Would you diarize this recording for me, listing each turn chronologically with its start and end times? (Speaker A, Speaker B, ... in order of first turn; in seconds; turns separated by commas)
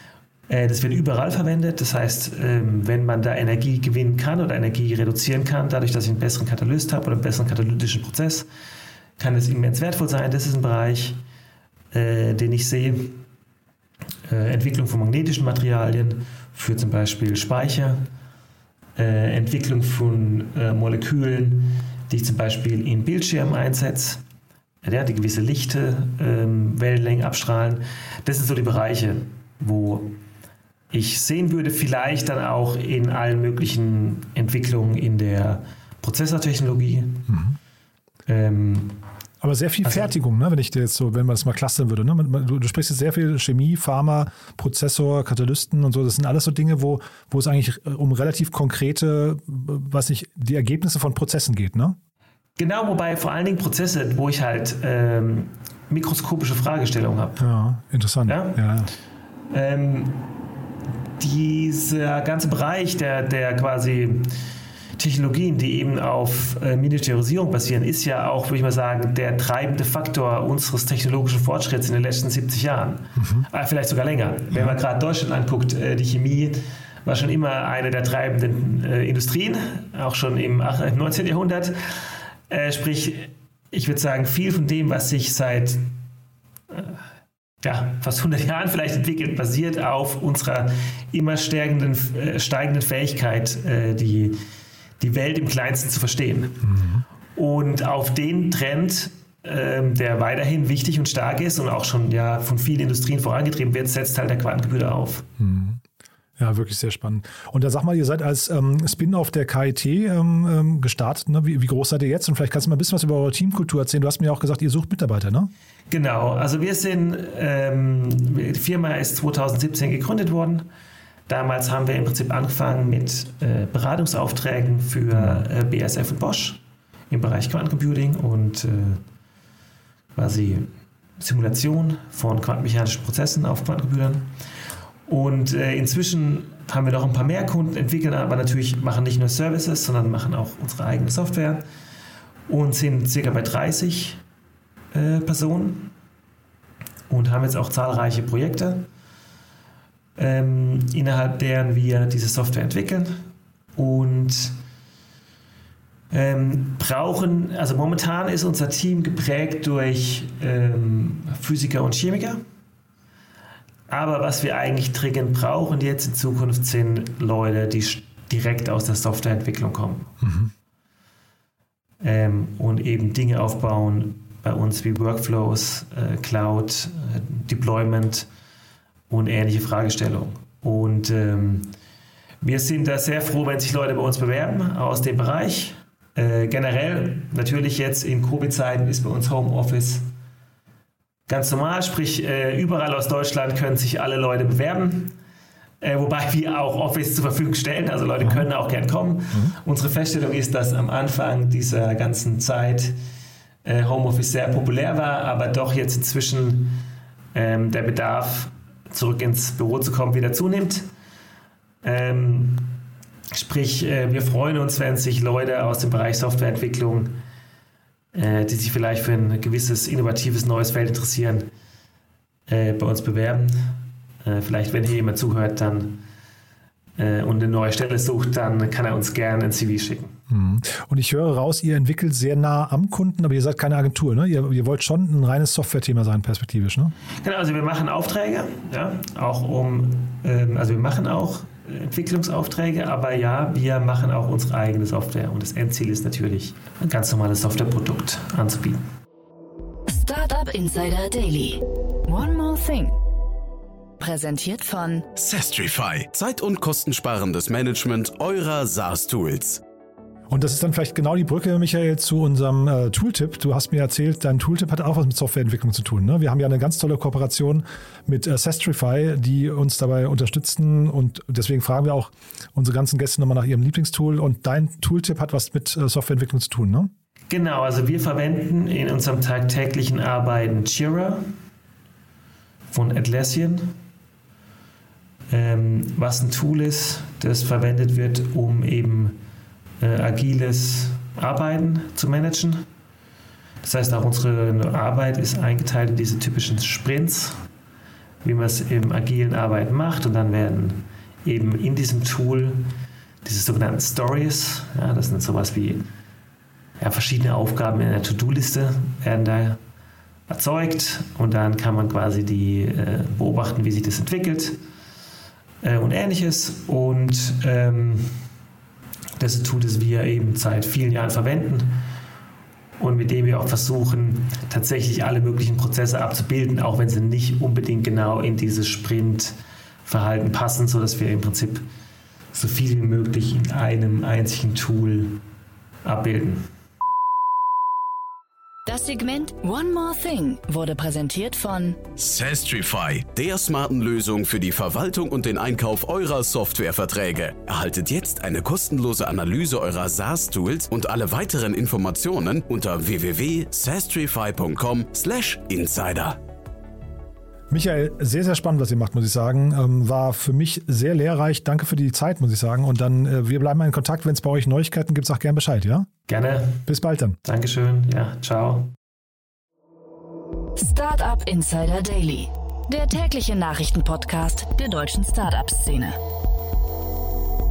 Speaker A: 0.5-8.5, Speaker A: 9.2-11.2, Speaker A: 11.9-13.2, Speaker A: 14.3-18.0, Speaker A: 18.9-24.2, Speaker A: 24.8-30.1, Speaker A: 30.9-37.3, Speaker B: 37.3-37.6, Speaker A: 38.3-39.0, Speaker B: 39.4-52.0, Speaker A: 39.8-40.1, Speaker A: 52.6-57.4, Speaker B: 57.4-58.9, Speaker A: 58.3-58.6, Speaker A: 59.5-60.2, Speaker A: 61.2-64.3, Speaker A: 65.0-85.9, Speaker B: 73.2-73.5, Speaker B: 74.5-74.8, Speaker A: 86.7-87.0, Speaker A: 87.6-94.4, Speaker A: 95.0-96.7, Speaker B: 96.6-97.0, Speaker A: 97.3-105.3, Speaker B: 105.4-105.8, Speaker B: 106.4-115.5, Speaker A: 115.9-120.7, Speaker A: 121.3-129.0, Speaker B: 125.1-125.4, Speaker A: 130.2-134.3, Speaker A: 135.1-141.6, Speaker A: 142.5-144.2, Speaker A: 144.9-145.9, Speaker A: 147.1-148.9, Speaker A: 150.2-153.2, Speaker A: 153.8-154.6, Speaker A: 156.1-162.4, Speaker A: 163.9-170.1, Speaker B: 170.2-170.5, Speaker A: 172.0-178.3, Speaker A: 179.1-181.7, Speaker A: 182.4-190.1, Speaker A: 191.3-195.1, Speaker A: 195.8-202.9, Speaker A: 203.6-206.8, Speaker A: 207.3-210.8, Speaker A: 211.8-212.7, Speaker A: 213.3-217.2, Speaker A: 218.1-221.5, Speaker A: 222.5-226.0, Speaker A: 227.0-230.1, Speaker B: 230.3-236.9, Speaker A: 237.2-248.8, Speaker C: 249.9-252.9, Speaker C: 254.0-255.1, Speaker D: 255.1-259.6, Speaker B: 260.3-276.9, Speaker A: 277.3-281.2, Speaker A: 282.7-283.7, Speaker A: 285.3-289.2, Speaker A: 289.8-292.7, Speaker A: 293.6-297.4, Speaker A: 298.2-302.6, Speaker A: 303.2-305.9, Speaker A: 306.8-309.6, Speaker A: 310.3-314.6, Speaker A: 315.6-318.2, Speaker A: 319.2-321.7, Speaker A: 322.8-331.6, Speaker A: 332.3-335.2, Speaker A: 335.8-336.4, Speaker C: 338.6-341.8, Speaker D: 342.0-356.2, Speaker B: 357.5-365.9, Speaker A: 366.1-366.6, Speaker B: 366.7-367.2, Speaker A: 367.2-368.7, Speaker C: 370.6-376.0